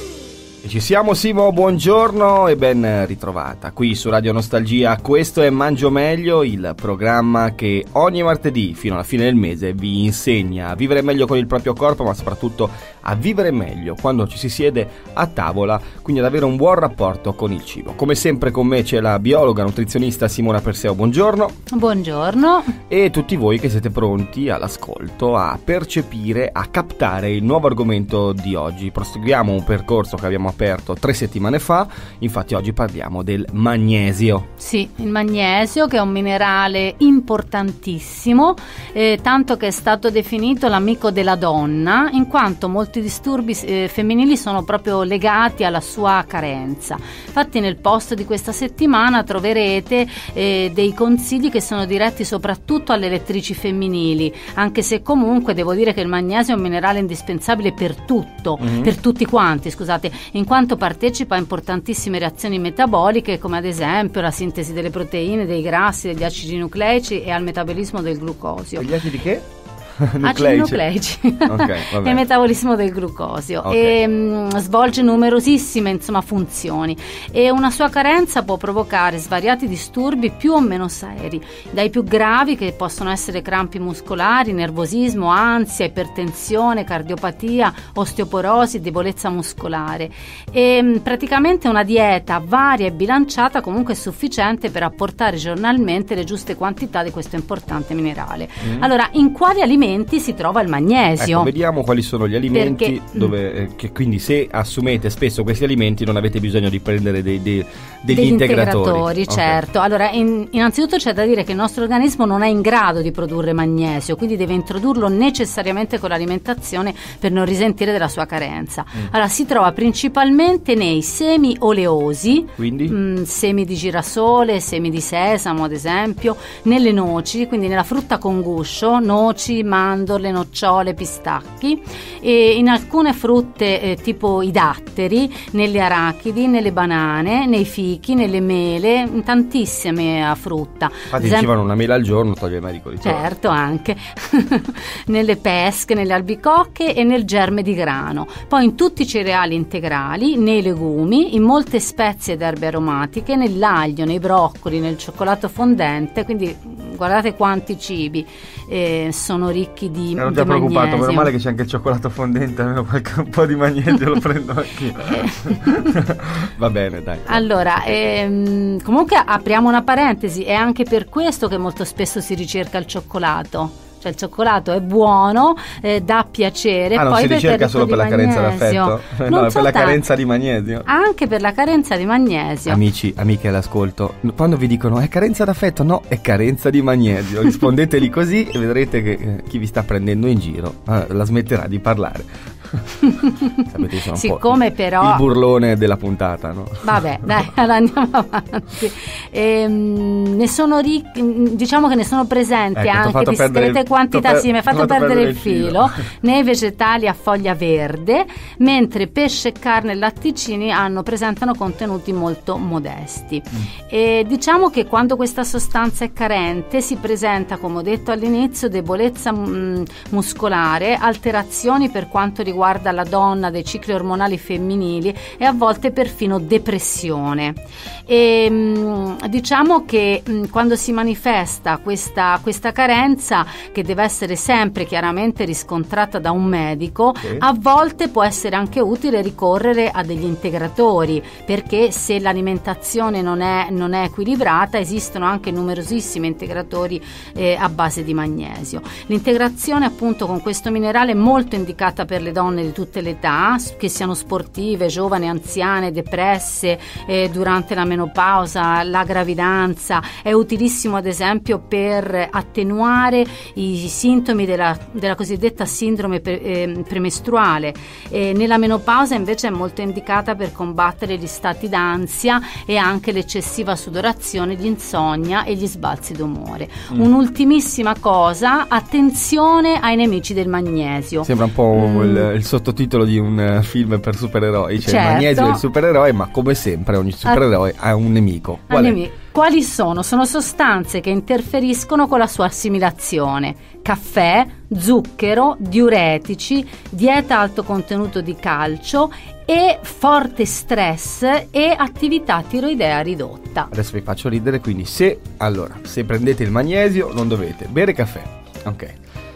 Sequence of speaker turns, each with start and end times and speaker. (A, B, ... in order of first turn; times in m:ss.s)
0:00.6-0:21.5 A
0:21.7-0:22.8 B
0:22.9-0:34.4 A
0:34.6-1:08.9 B
0:58.6-0:58.9 A
1:08.8-1:09.4 A
1:10.0-1:10.8 A
1:10.2-1:41.5 B
1:11.5-1:12.2 A
1:13.6-1:14.0 A
1:38.6-1:38.9 A
1:41.2-1:49.6 A
1:42.5-1:43.3 B
1:48.1-2:21.5 B
2:02.6-2:03.0 A
2:21.1-2:23.3 A
2:23.0-2:41.3 B
2:40.2-2:47.9 A
2:45.1-2:45.9 B
2:47.3-3:00.0 B
2:56.9-3:00.9 A
3:00.8-3:02.8 B
3:02.7-3:13.0 A
3:13.1-3:15.2 B
3:13.6-3:17.3 A
3:16.8-4:42.3 B
3:22.7-3:26.0 A
4:41.2-4:49.0 A
4:44.8-4:45.6 B
4:48.7-5:03.7 B
5:03.7-5:08.9 A